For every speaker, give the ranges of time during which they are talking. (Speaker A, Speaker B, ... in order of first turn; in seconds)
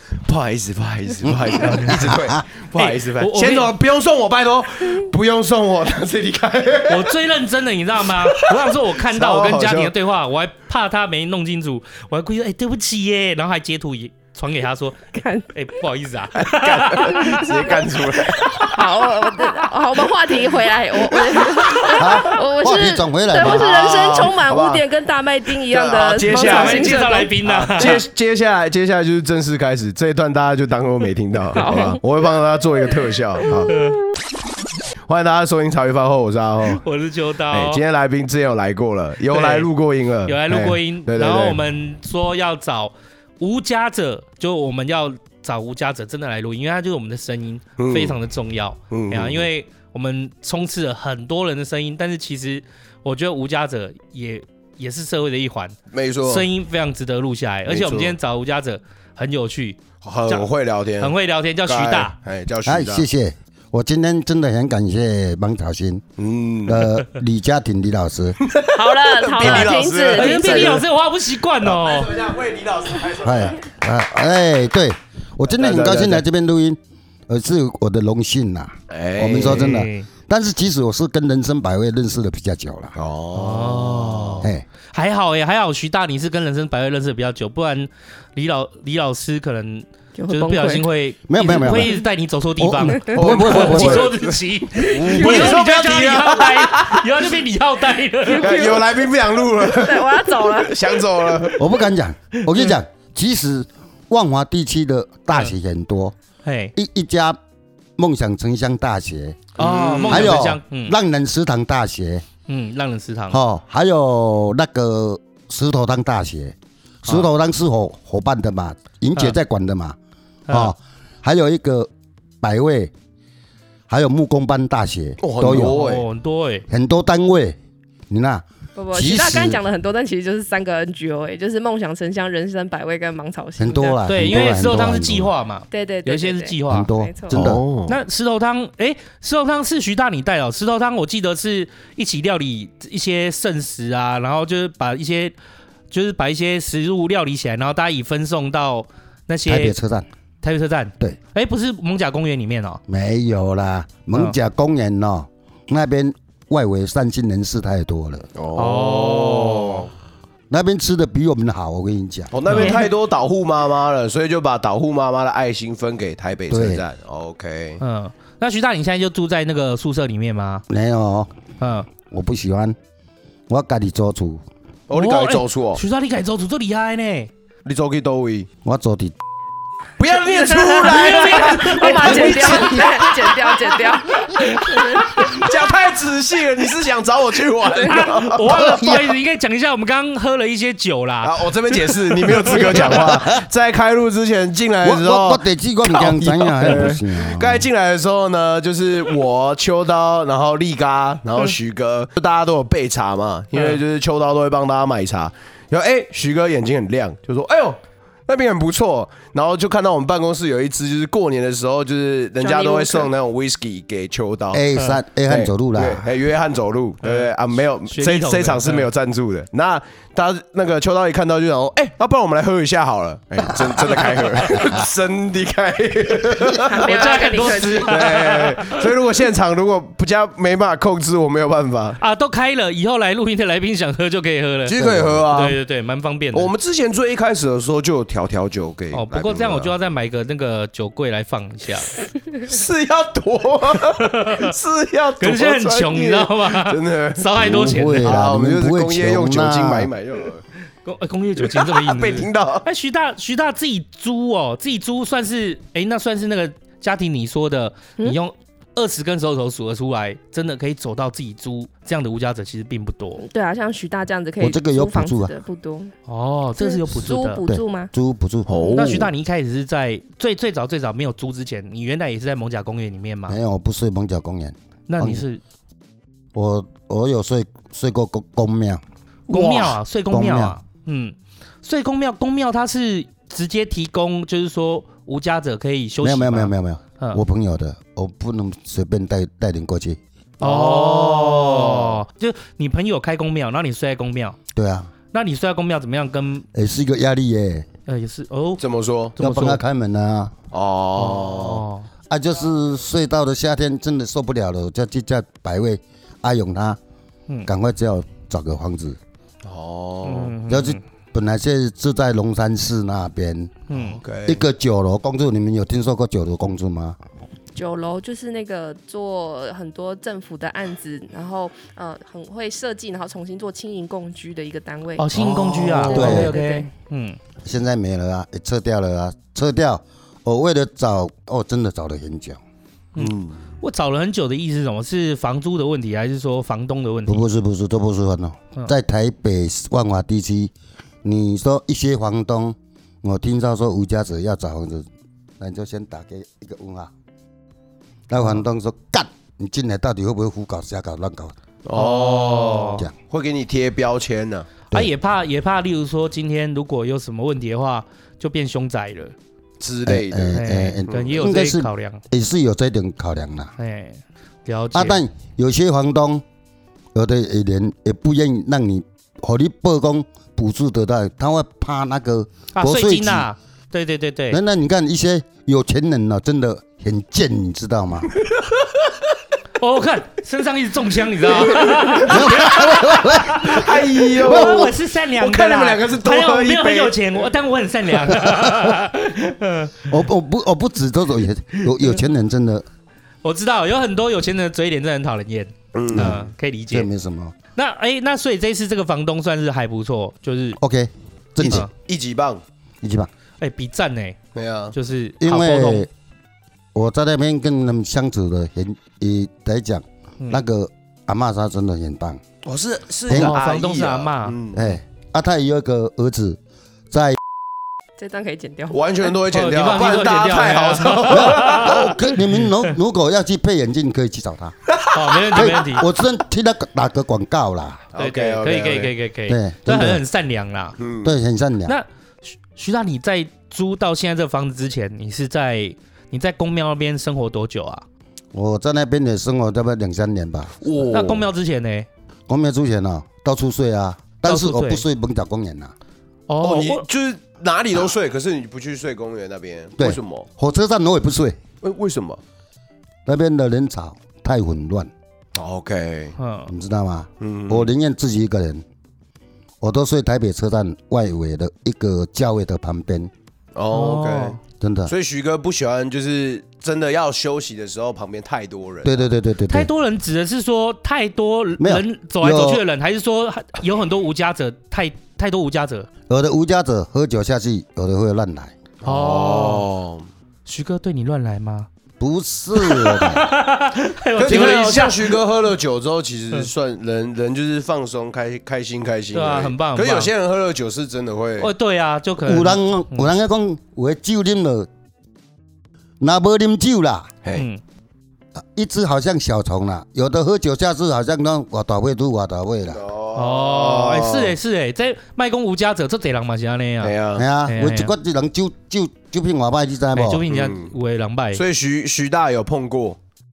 Speaker A: 0.2-7.1, 8.2-9.9, 16.4-18.7, 21.0-22.2, 23.4-24.9, 25.6-33.7, 35.0-36.8, 37.5-41.6, 47.8-48.2, 48.9-49.5, 55.9-56.5, 57.7-58.1, 60.0-61.1, 61.7-63.0, 66.2-66.9, 68.4-70.8, 71.6-73.6, 75.5-76.2, 78.9-79.7, 83.0-84.5, 93.1-97.1, 98.3-101.7, 109.6-110.4, 125.2-126.0, 137.3-138.0, 158.3-159.9, 162.3-167.8, 174.9-175.8, 177.6-178.5, 180.0-183.9, 184.7-188.6, 191.2-214.6, 215.3-232.0, 234.6-235.6, 236.3-239.7, 242.4-247.5, 248.0-250.4, 251.5-252.7, 268.5-269.1, 290.4-292.0, 298.6-299.1, 300.5-301.6, 309.4-310.4, 314.0-314.4, 325.2-326.2, 333.0-333.4, 351.6-354.5, 359.6-361.2, 381.5-387.3, 395.7-396.2, 401.4-402.4, 404.3-404.7, 412.4-414.8, 418.7-421.9, 424.7-425.6, 427.9-428.9, 430.8-431.1, 440.6-441.2, 446.4-450.3, 451.6-452.2, 455.3-456.1, 457.2-457.7, 463.5-469.0, 478.8-480.1, 484.2-491.5, 502.7-504.4, 506.8-507.2, 510.3-510.7, 511.3-513.0
Speaker B: 1.6-2.1, 2.7-3.7, 6.9-15.0, 15.5-17.7, 18.4-18.7, 26.2-28.0, 31.6-31.9, 33.7-34.0, 36.7-37.8, 39.3-39.7, 40.2-60.5, 61.0-62.1, 70.1-72.1, 79.3-80.1, 83.3-98.7, 106.4-106.7, 109.6-111.0, 112.5-113.4, 120.5-120.7, 125.7-126.6, 134.1-136.9, 137.9-145.3, 145.9-149.8, 150.4-152.8, 158.5-159.9, 162.5-162.9, 167.8-170.6, 171.6-171.9, 174.9-177.3, 180.3-183.1, 187.8-192.9, 217.0-217.3, 217.8-218.9, 226.8-228.9, 232.0-234.8, 235.3-236.5, 238.9-242.0, 243.9-244.5, 245.2-248.1, 250.8-263.2, 266.1-267.4, 268.7-273.4, 274.9-275.4, 279.3-287.2, 290.4-294.4, 295.1-296.5, 297.9-298.6, 299.1-299.6, 300.9-301.9, 310.0-310.8, 313.7-314.0, 325.0-327.2, 332.9-337.2, 351.7-352.9, 354.7-359.1, 360.3-362.0, 363.6-365.0, 372.5-374.4, 379.6-383.7, 384.2-389.9, 391.6-392.0, 393.2-396.9, 397.5-400.6, 401.4-401.7, 403.4-404.2, 404.7-405.9, 413.1-414.3, 419.3-422.5, 424.9-425.9, 428.0-430.8, 431.7-437.8, 440.9-441.9, 444.2-444.8, 446.3-446.8, 456.2-456.5, 463.7-464.4, 469.5-475.9, 478.8-479.6, 480.4-481.7, 482.6-485.2, 489.1-490.1, 491.4-493.1, 497.3-497.6, 503.1-507.9, 509.9-511.4
Speaker C: 15.1-15.5, 18.6-27.9, 31.5-32.0, 33.5-34.1, 68.7-70.8, 90.1-90.8, 95.2-95.5, 98.4-98.7, 99.6-101.0, 128.8-134.0, 135.7-137.3, 180.8-185.3, 187.7-188.1, 212.4-213.1, 226.7-228.3, 263.2-265.9, 266.6-267.9, 317.5-325.1, 325.8-326.7, 418.0-418.9
Speaker D: 22.0-23.9, 62.6-66.0, 66.7-68.4, 69.4-69.7, 73.2-76.8, 77.3-83.0, 91.3-92.0, 92.6-94.1, 94.9-95.6, 101.5-106.1, 106.8-107.4, 108.0-109.5, 110.0-112.2, 113.3-120.0, 120.5-121.9, 122.4-122.9, 123.9-125.8, 126.7-127.6, 128.1-129.6, 133.6-135.3, 136.7-137.6, 149.4-150.1, 152.9-158.3, 160.5-162.3, 166.5-166.8, 170.7-171.3, 172.1-172.8, 173.5-174.4, 178.6-179.2, 188.5-189.1, 192.6-193.3, 194.8-197.7, 214.5-216.0, 234.7-235.3, 247.4-249.9, 264.4-265.3, 267.4-269.1, 273.3-275.2, 276.3-280.6, 286.0-290.0, 294.5-294.9, 296.5-297.7, 299.2-300.3, 302.1-306.8, 307.4-309.0, 310.5-317.0, 325.9-326.4, 327.4-332.4, 337.1-340.5, 341.0-344.9, 345.4-346.9, 348.1-351.3, 359.9-363.5, 364.7-366.2, 366.9-373.3, 374.3-378.1, 382.0-383.7, 384.2-384.7, 389.9-392.6, 395.9-397.3, 400.6-401.7, 402.8-403.1, 405.2-405.9, 406.7-412.2, 413.1-413.3, 414.5-416.4, 416.9-417.2, 421.1-424.6, 425.3-427.8, 429.3-430.0, 431.0-431.8, 438.3-440.6, 442.3-445.7, 449.8-451.4, 453.1-454.9, 456.5-458.6, 459.6-463.1, 464.6-464.9, 468.8-469.7, 471.6-472.6, 476.1-478.5, 482.0-483.2, 492.2-494.7, 496.0-497.1, 498.4-502.8, 507.1-510.2